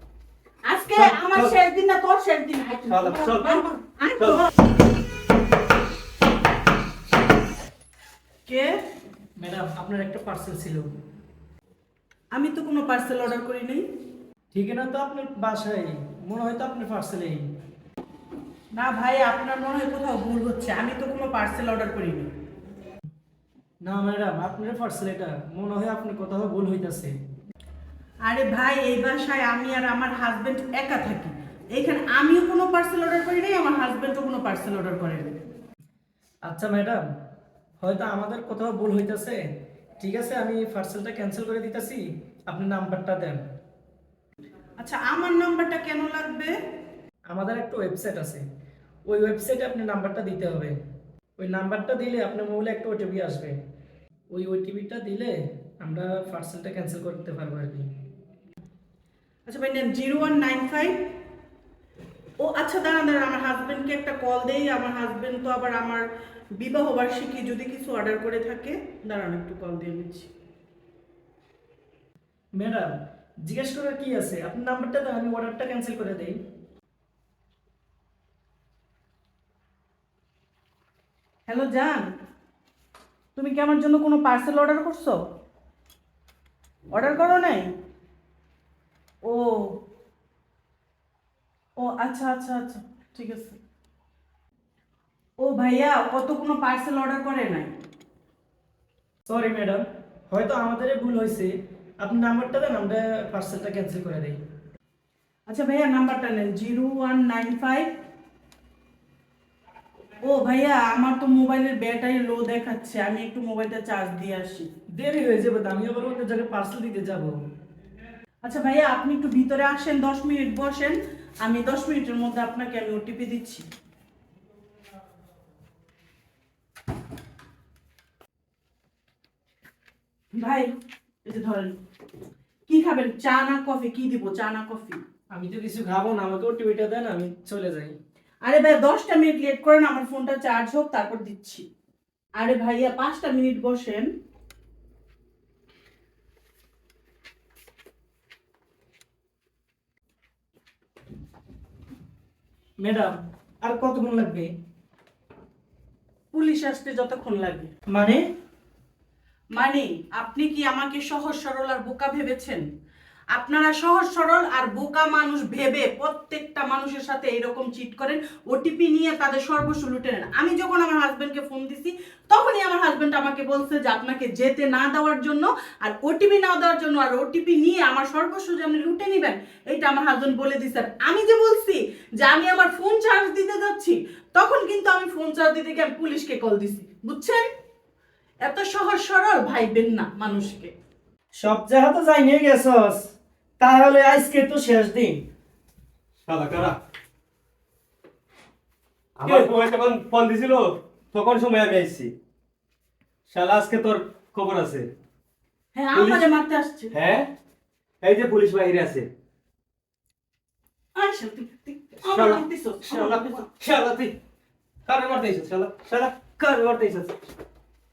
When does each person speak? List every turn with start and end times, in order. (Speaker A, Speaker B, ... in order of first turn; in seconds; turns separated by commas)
Speaker A: 0.6-4.5, Speaker B: 0.9-1.6, Speaker B: 2.9-4.4, Speaker A: 8.5-8.7, Speaker C: 9.4-10.9, Speaker A: 12.3-13.8, Speaker C: 14.5-17.5, Speaker A: 18.7-22.3, Speaker C: 23.8-27.2, Speaker A: 28.2-35.4, Speaker C: 36.5-37.0, Speaker C: 37.8-39.5, Speaker C: 40.0-43.4, Speaker A: 44.8-46.5, Speaker C: 47.3-48.5, Speaker C: 49.1-50.8, Speaker C: 51.4-53.6, Speaker C: 54.3-57.9, Speaker A: 59.5-61.1, Speaker A: 62.4-66.1, Speaker A: 66.6-70.3, Speaker C: 72.6-76.4, Speaker A: 81.5-82.1, Speaker A: 83.4-85.2, Speaker A: 86.9-87.7, Speaker A: 89.2-89.8, Speaker A: 91.8-93.6, Speaker A: 95.4-97.7, Speaker C: 99.3-104.4, Speaker A: 105.5-107.9, Speaker A: 110.2-114.7, Speaker C: 114.9-117.3, Speaker A: 118.4-123.6, Speaker A: 130.3-131.8, Speaker A: 132.7-135.0, Speaker C: 135.3-137.9, Speaker A: 138.4-141.6, Speaker A: 142.3-144.1, Speaker C: 152.8-154.5, Speaker A: 156.3-157.7, Speaker C: 157.9-158.2, Speaker A: 159.5-162.6, Speaker A: 163.3-187.5, Speaker A: 188.4-190.7, Speaker C: 191.4-195.2, Speaker B: 196.2-196.8, Speaker B: 199.2-202.1, Speaker B: 203.3-204.9, Speaker A: 205.7-206.9, Speaker B: 205.9-206.2, Speaker B: 206.9-207.3, Speaker B: 208.0-209.1, Speaker A: 210.9-213.4, Speaker B: 212.0-214.1, Speaker B: 214.8-217.1